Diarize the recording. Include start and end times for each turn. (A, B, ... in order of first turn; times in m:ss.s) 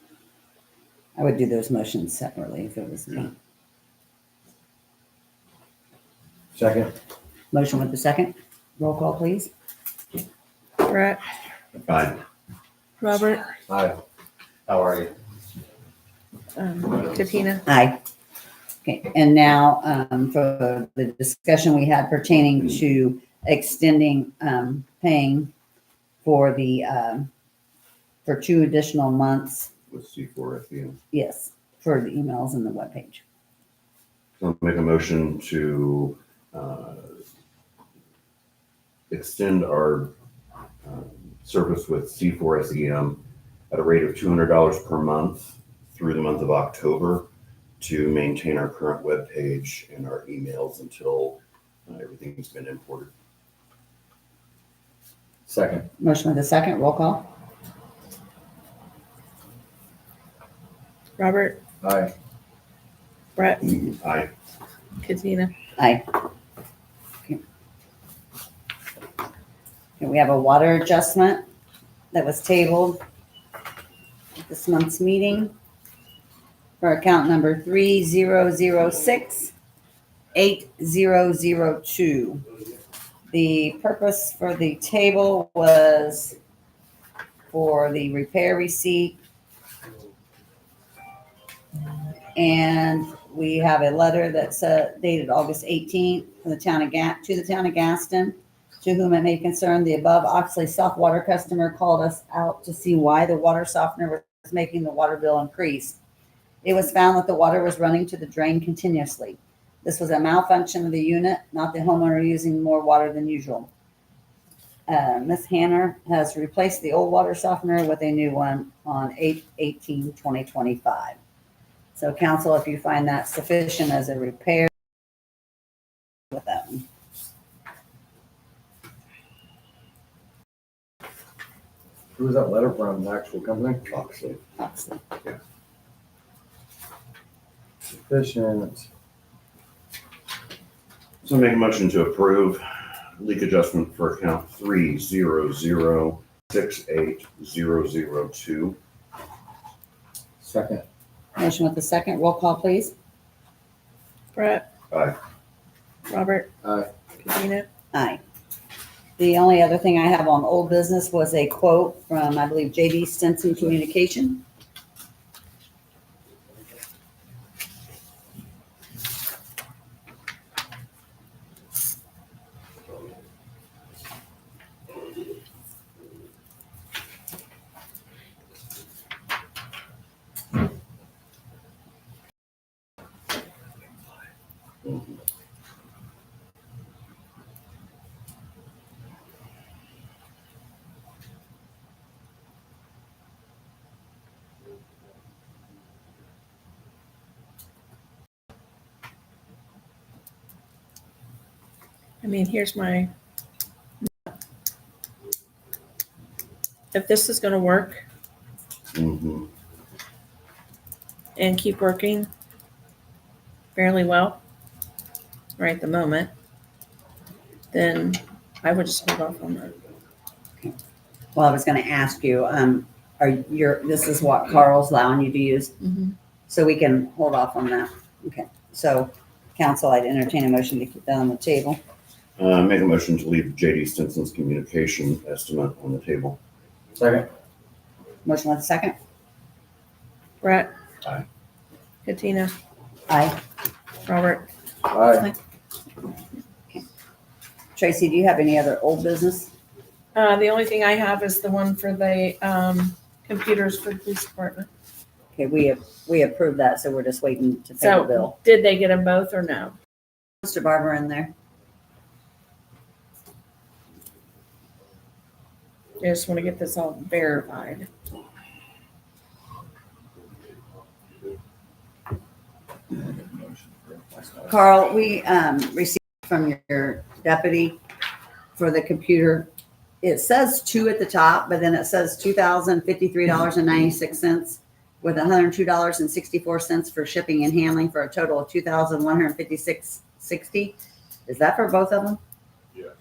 0:01.2-0:03.3 A
0:06.5-0:06.9 B
0:07.5-0:09.5 A
0:10.8-0:11.2 C
0:11.8-0:12.2 D
0:13.0-0:13.4 C
0:13.7-0:14.0 B
0:14.7-0:15.1 D
0:16.6-0:17.6 C
0:17.6-0:18.0 A
0:18.8-0:25.5 A
0:26.2-0:27.3 A
0:28.2-0:29.7 A
0:29.9-0:31.0 D
0:31.1-0:33.2 A
0:34.4-0:37.2 D
0:39.1-0:40.1 D
0:40.8-0:47.3 D
0:47.8-0:53.1 D
0:55.4-0:55.9 B
0:56.0-0:57.3 A
1:01.2-1:01.6 C
1:01.8-1:02.1 B
1:03.4-1:03.6 C
1:03.6-1:04.3 D
1:05.0-1:05.5 C
1:05.8-1:06.1 A
1:10.0-1:11.4 A
1:12.1-1:13.0 A
1:14.4-1:15.5 A
1:16.8-1:19.5 A
1:20.3-1:22.4 A
1:23.3-1:26.4 A
1:27.5-1:29.2 A
1:32.4-1:46.0 A
1:46.6-1:53.7 A
1:54.9-2:01.2 A
2:02.0-2:04.7 A
2:06.3-2:06.8 A
2:12.2-2:13.8 B
2:13.9-2:14.4 D
2:14.6-2:15.0 A
2:17.9-2:18.9 B
2:21.2-2:28.8 D
2:30.4-2:30.8 B
2:31.4-2:32.9 A
2:34.3-2:34.7 C
2:34.9-2:35.2 D
2:36.1-2:36.5 C
2:36.6-2:36.9 B
2:37.2-2:37.6 C
2:37.9-2:38.2 A
2:39.2-2:44.4 A
3:22.2-3:23.1 C
3:26.9-3:28.0 C
3:28.9-3:29.5 D
3:31.4-3:32.3 C
3:33.7-3:34.4 C
3:35.6-3:36.3 C
3:37.7-3:39.7 C
3:41.3-3:45.8 A
3:46.5-3:51.8 A
3:52.4-3:56.4 D
3:57.0-3:57.3 B
3:58.2-3:59.0 A
4:00.4-4:00.7 C
4:02.0-4:02.5 C
4:03.1-4:03.4 A
4:04.0-4:04.5 C
4:04.9-4:05.3 B
4:07.8-4:09.5 A
4:10.1-4:14.7 C
4:15.3-4:18.4 A
4:17.8-4:19.7 C
4:20.4-4:21.3 A
4:26.0-4:27.9 C
4:34.5-4:37.8 A
4:38.6-4:39.5 A
4:40.0-4:50.8 A
4:51.3-4:52.2 A